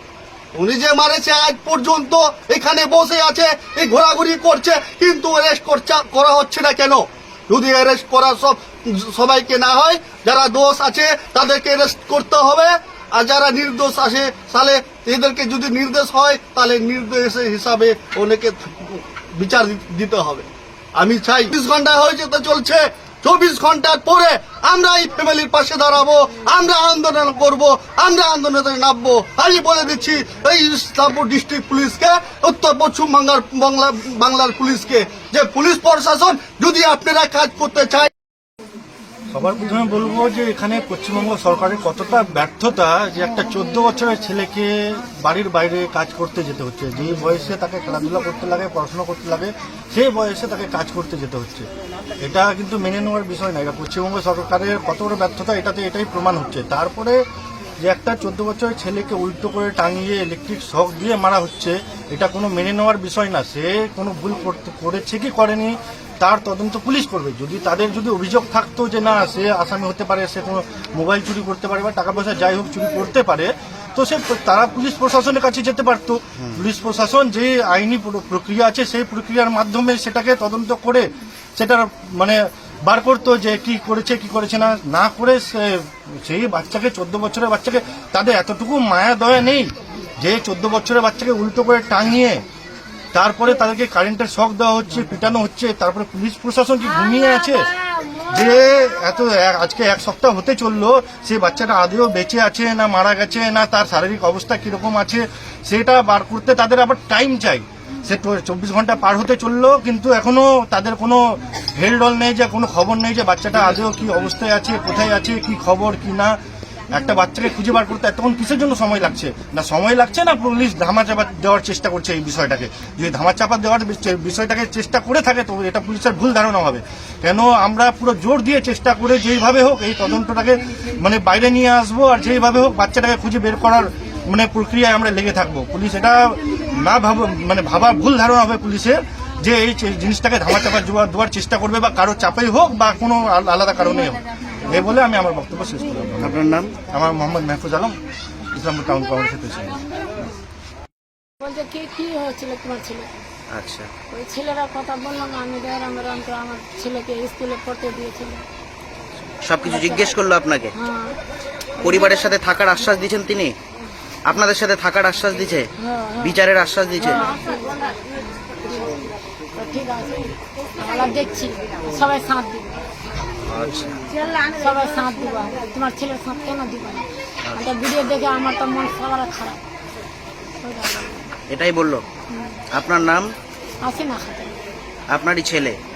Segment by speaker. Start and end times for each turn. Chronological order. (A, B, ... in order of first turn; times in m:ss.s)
0:00.6-0:20.4 A
0:21.0-0:38.1 A
0:39.3-0:51.7 B
0:52.2-0:57.2 B
0:57.8-1:32.4 B
1:33.1-1:37.7 B
1:38.2-1:56.3 B
1:56.9-2:27.9 B
2:26.2-2:26.7 C
2:28.5-2:29.8 B
2:31.4-2:33.1 D
2:33.5-2:33.9 C
2:34.1-2:38.4 D
2:39.4-2:40.7 C
2:39.6-2:40.1 D
2:40.8-2:41.2 D
2:41.8-2:42.2 D
2:41.8-2:43.5 C
2:44.3-2:45.7 C
2:45.8-2:46.4 D
2:46.2-2:47.2 C
2:47.1-2:52.7 D
2:53.5-2:54.0 C
2:54.5-2:59.6 D
3:00.6-3:01.3 D
3:01.5-3:02.0 C
3:02.3-3:02.6 D
3:02.7-3:03.3 C
3:03.8-3:04.6 D
3:05.1-3:05.8 C